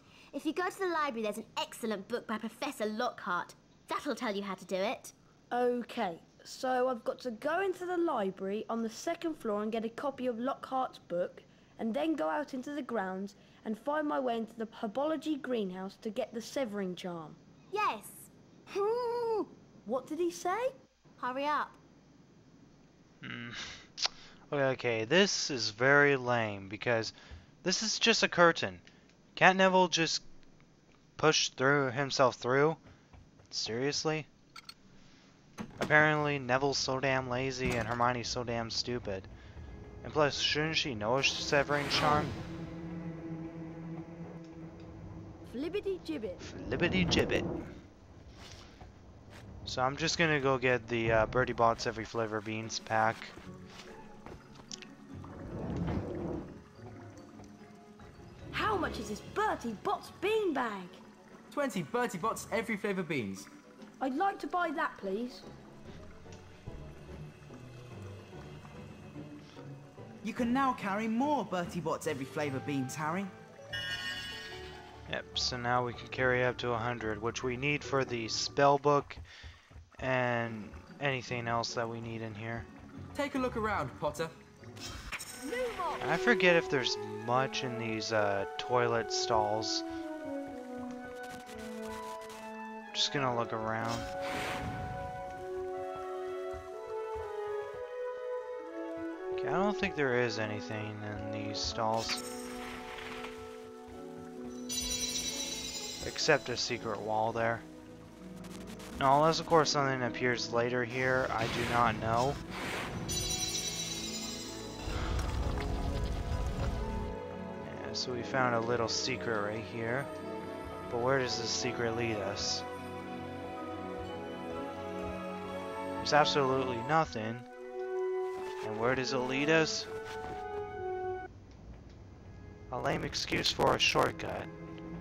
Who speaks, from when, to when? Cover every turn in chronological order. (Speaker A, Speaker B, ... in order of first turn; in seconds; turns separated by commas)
Speaker A: 0.3-5.1, Speaker B: 5.5-17.4, Speaker A: 17.7-19.5, Speaker B: 19.9-20.8, Speaker A: 21.2-21.8, Speaker C: 23.2-28.8, Speaker C: 29.4-30.2, Speaker C: 31.2-32.8, Speaker C: 33.5-34.3, Speaker C: 35.8-39.3, Speaker C: 40.0-42.4, Speaker B: 45.5-46.4, Speaker C: 46.4-47.5, Speaker C: 49.7-53.4, Speaker B: 58.5-61.0, Speaker D: 61.5-63.5, Speaker B: 64.0-65.5, Speaker E: 70.2-73.3, Speaker C: 75.1-79.2, Speaker C: 80.0-82.7, Speaker D: 83.1-84.3, Speaker C: 86.0-89.8, Speaker C: 92.9-94.1, Speaker C: 99.4-102.2, Speaker C: 106.0-107.7, Speaker C: 109.0-112.4, Speaker C: 117.6-120.1, Speaker C: 120.9-122.7, Speaker C: 126.0-127.5, Speaker C: 128.6-129.9, Speaker C: 132.7-134.5